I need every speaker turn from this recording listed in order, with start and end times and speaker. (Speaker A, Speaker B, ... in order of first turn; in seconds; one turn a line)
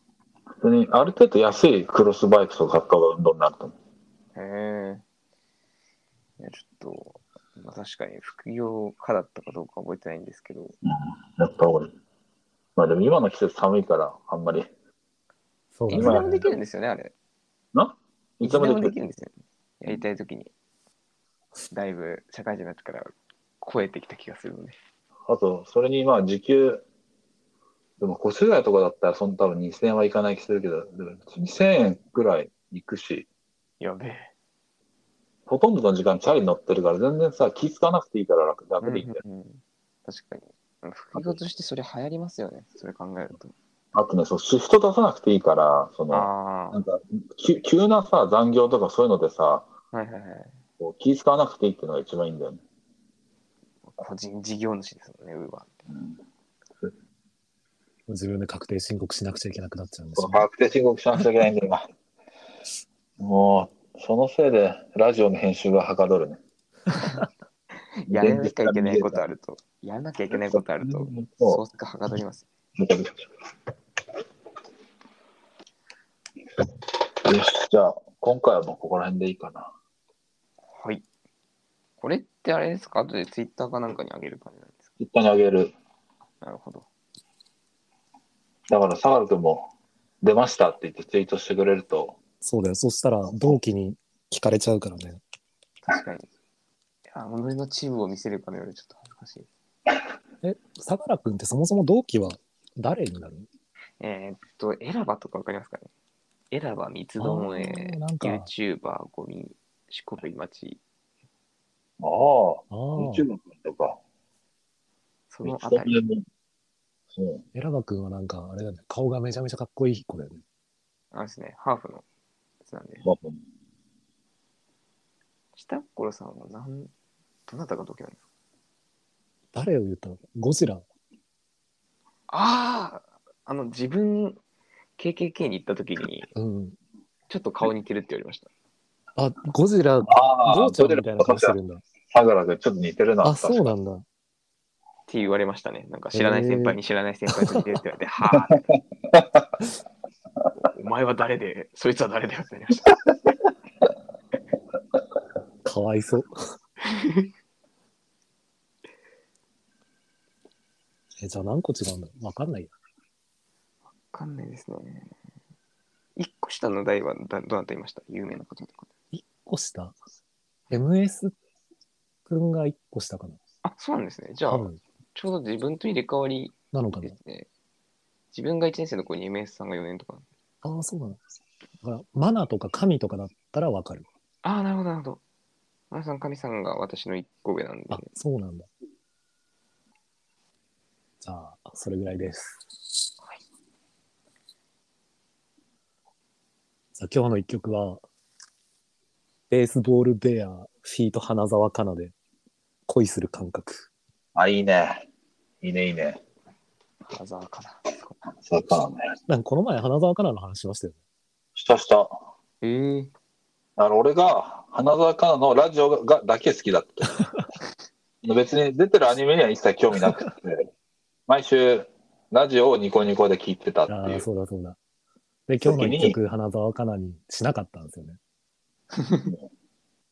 Speaker A: 0.6-3.8
Speaker B: 4.3-5.0
Speaker B: 6.4-10.8
Speaker A: 10.9-11.9
Speaker A: 12.8-14.7
Speaker C: 15.8-16.4
Speaker B: 15.9-17.1
Speaker A: 15.9-16.5
Speaker A: 17.7-18.9
Speaker B: 18.4-20.5
Speaker B: 21.7-24.8
Speaker A: 25.3-26.8
Speaker A: 28.0-33.3
Speaker B: 33.8-34.3
Speaker A: 35.5-39.2
Speaker B: 38.8-43.5
Speaker A: 43.9-49.7
Speaker B: 46.1-46.8
Speaker B: 49.9-50.6
Speaker A: 50.8-52.6
Speaker B: 53.9-55.9
Speaker C: 58.1-60.5
Speaker A: 60.2-61.9
Speaker A: 63.2-66.4
Speaker B: 68.1-72.5
Speaker A: 68.1-69.2
Speaker A: 70.3-71.6
Speaker A: 72.8-73.3
Speaker A: 77.2-79.7
Speaker B: 80.7-81.1
Speaker B: 82.0-84.9
Speaker A: 85.0-85.7
Speaker B: 86.4-86.9
Speaker A: 88.7-89.7
Speaker A: 90.2-92.2
Speaker C: 92.4-95.2
Speaker B: 95.8-96.3
Speaker B: 97.1-99.5
Speaker C: 100.4-103.5
Speaker B: 104.0-105.9
Speaker B: 106.5-110.8
Speaker C: 107.2-108.5
Speaker A: 112.0-114.0
Speaker C: 112.7-113.3
Speaker B: 115.3-116.0
Speaker A: 115.4-116.2
Speaker A: 117.2-117.4
Speaker C: 117.5-120.4
Speaker B: 121.1-122.0
Speaker B: 122.7-123.0
Speaker A: 123.0-123.4
Speaker B: 125.5-126.9
Speaker B: 127.5-128.2
Speaker C: 129.5-130.8
Speaker B: 132.3-134.4
Speaker B: 135.0-136.3
Speaker C: 136.3-136.8
Speaker B: 137.3-138.5
Speaker C: 139.2-141.8
Speaker A: 140.1-141.6
Speaker A: 142.1-143.7
Speaker C: 143.2-144.1
Speaker B: 145.1-148.7
Speaker C: 146.1-146.8
Speaker A: 149.1-149.4
Speaker B: 150.6-153.0
Speaker C: 155.7-156.3
Speaker B: 156.8-157.3
Speaker C: 161.2-162.7
Speaker B: 164.1-165.2
Speaker B: 166.2-168.9
Speaker C: 169.1-169.9
Speaker C: 170.7-171.3
Speaker C: 172.3-173.4
Speaker B: 173.6-177.5
Speaker C: 174.5-174.8
Speaker C: 176.7-177.2
Speaker B: 178.3-180.3
Speaker C: 180.6-181.2
Speaker C: 181.8-184.1
Speaker B: 184.4-185.2
Speaker B: 185.9-188.1
Speaker C: 187.9-188.7
Speaker C: 191.2-192.7
Speaker C: 197.0-198.0
Speaker C: 199.5-202.1
Speaker C: 202.9-203.9
Speaker A: 204.3-205.1
Speaker A: 205.6-206.2
Speaker B: 207.0-208.2
Speaker A: 208.4-209.1
Speaker C: 209.3-211.0
Speaker A: 211.6-212.2
Speaker B: 212.6-213.1
Speaker A: 213.8-217.3
Speaker A: 218.2-220.7
Speaker A: 221.3-224.2
Speaker C: 223.9-224.8
Speaker C: 225.5-228.2
Speaker A: 225.6-226.2
Speaker B: 229.0-229.3